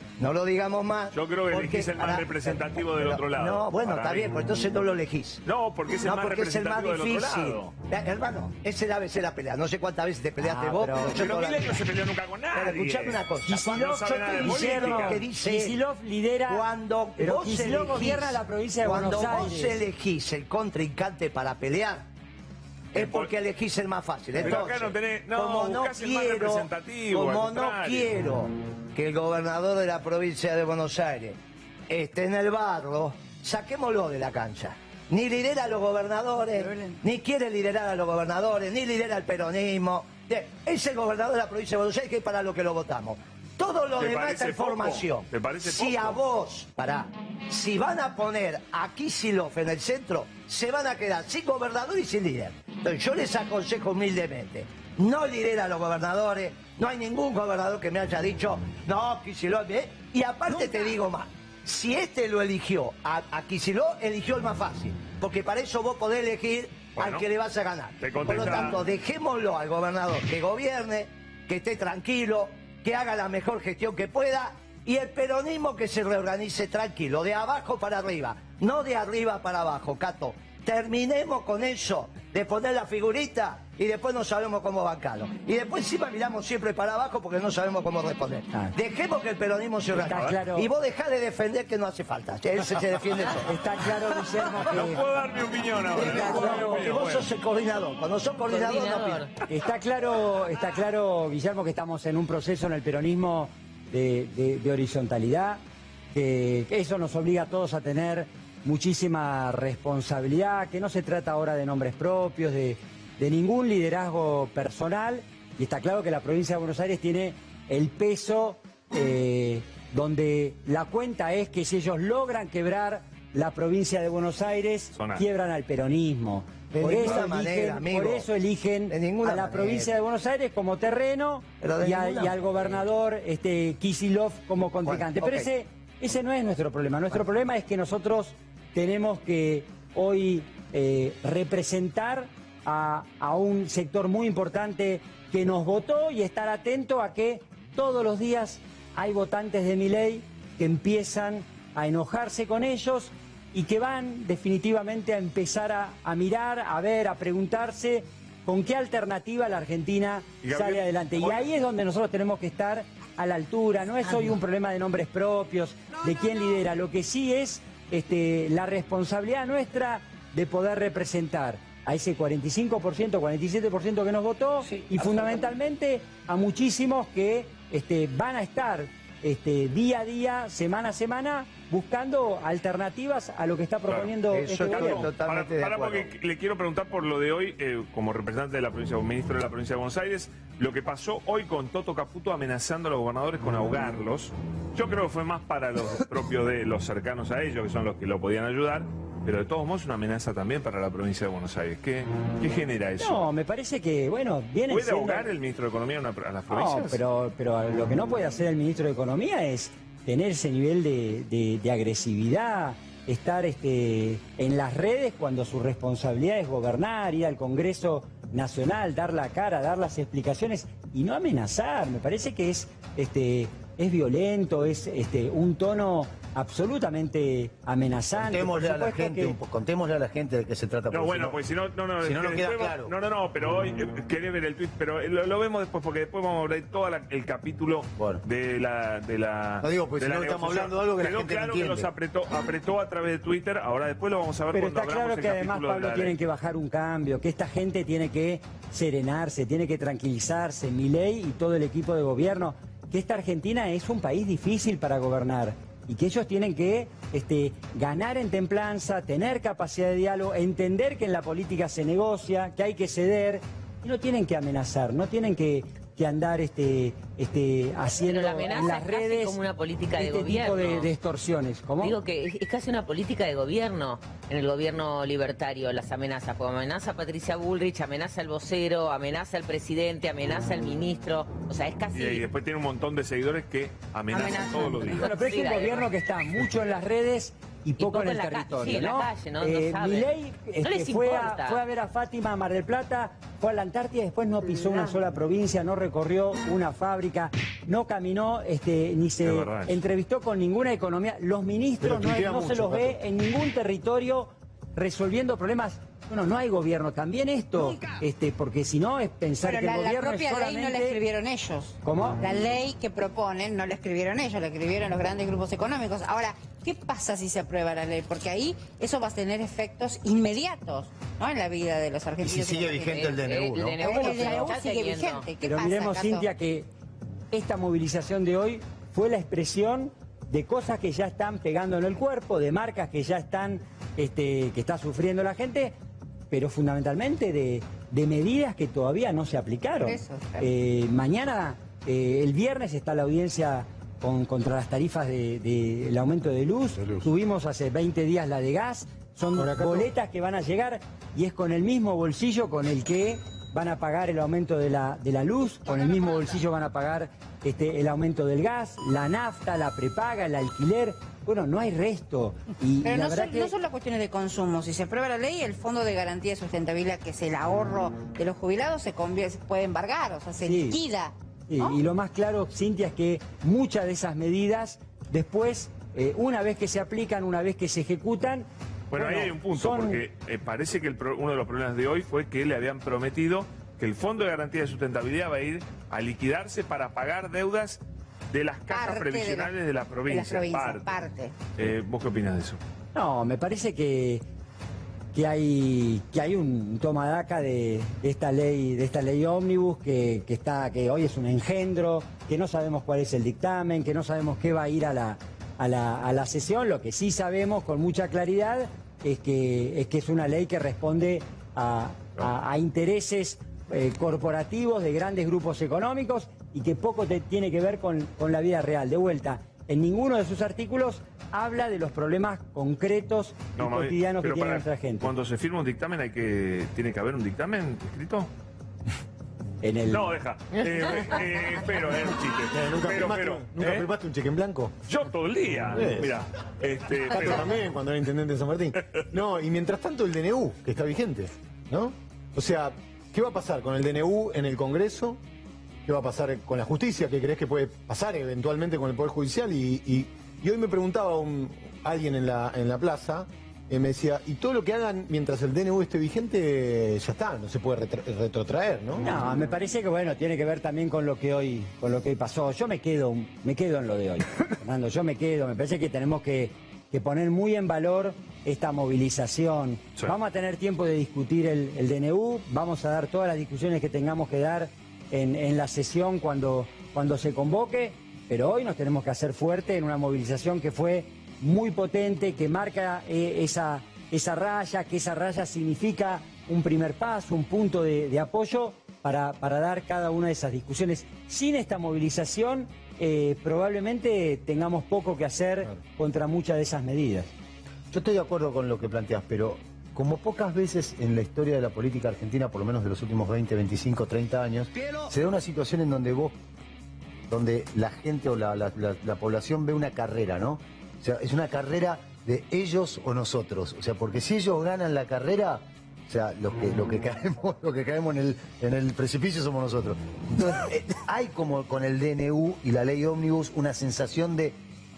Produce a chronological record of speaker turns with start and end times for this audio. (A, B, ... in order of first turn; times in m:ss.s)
0:00.2-0:05.4 A
0:01.1-0:04.4 B
0:05.4-0:07.7 B
0:06.0-0:11.8 A
0:10.4-0:11.2 C
0:11.0-0:15.2 B
0:12.5-0:15.8 A
0:13.5-0:13.7 C
0:14.4-0:16.6 C
0:16.5-0:22.1 A
0:17.2-0:19.8 C
0:22.9-0:31.4 A
0:23.0-0:23.3 B
0:24.4-0:28.1 B
0:31.9-1:33.5 A
0:44.0-0:46.2 B
1:07.0-1:07.3 B
1:08.0-1:08.8 B
1:30.0-1:30.4 B
1:30.0-1:30.7 C
1:33.3-1:35.0 C
1:34.7-1:37.3 B
1:36.0-1:39.3 A
1:36.0-1:36.8 C
1:38.4-1:39.3 D
1:39.5-1:45.6 C
1:46.1-3:05.1 C
2:05.0-2:05.2 B
2:06.7-2:08.3 A
2:08.9-2:09.9 A
2:11.6-2:12.8 A
2:14.9-2:15.5 A
2:40.4-2:41.4 B
3:03.9-3:23.2 B
3:04.3-3:06.1 A
3:23.0-3:25.3 C
3:24.7-3:27.0 B
3:26.5-3:49.4 C
3:48.2-3:51.4 E
3:50.9-4:06.2 B
3:52.0-3:52.9 E
3:58.0-3:58.2 E
3:59.6-4:01.9 E
4:04.5-4:29.4 C
4:27.9-4:30.9 D
4:30.0-4:32.0 C
4:31.8-4:42.3 D
4:41.9-4:45.1 B
4:44.1-4:45.9 D
4:45.0-5:11.0 C
4:47.8-4:51.6 D
4:59.2-4:59.8 B
5:01.8-5:03.0 F
5:09.4-5:23.2 G
5:11.8-5:12.2 C
5:22.2-5:24.5 E
5:22.9-5:25.3 D
5:23.8-5:26.3 G
5:25.4-5:26.7 C
5:27.3-5:35.8 C
5:36.3-6:03.5 C
5:39.8-5:40.5 G
5:49.4-5:49.9 F
6:02.8-6:11.8 G
6:10.4-6:10.8 C
6:11.5-6:20.0 C
6:18.9-6:27.8 B
6:28.3-6:30.9 B
6:28.7-6:29.5 G
6:30.1-6:31.4 G
6:31.6-6:32.6 B
6:33.0-6:34.2 C
6:35.1-7:05.1 C
7:03.6-7:08.3 B
7:09.6-7:10.1 C
7:09.9-7:13.9 B
7:12.5-7:14.7 F
7:14.9-7:17.5 B
7:15.7-7:16.2 F
7:17.1-7:25.2 F
7:25.9-7:39.1 F
7:39.0-8:17.3 C
8:17.9-8:26.4 E
8:27.3-8:44.6 E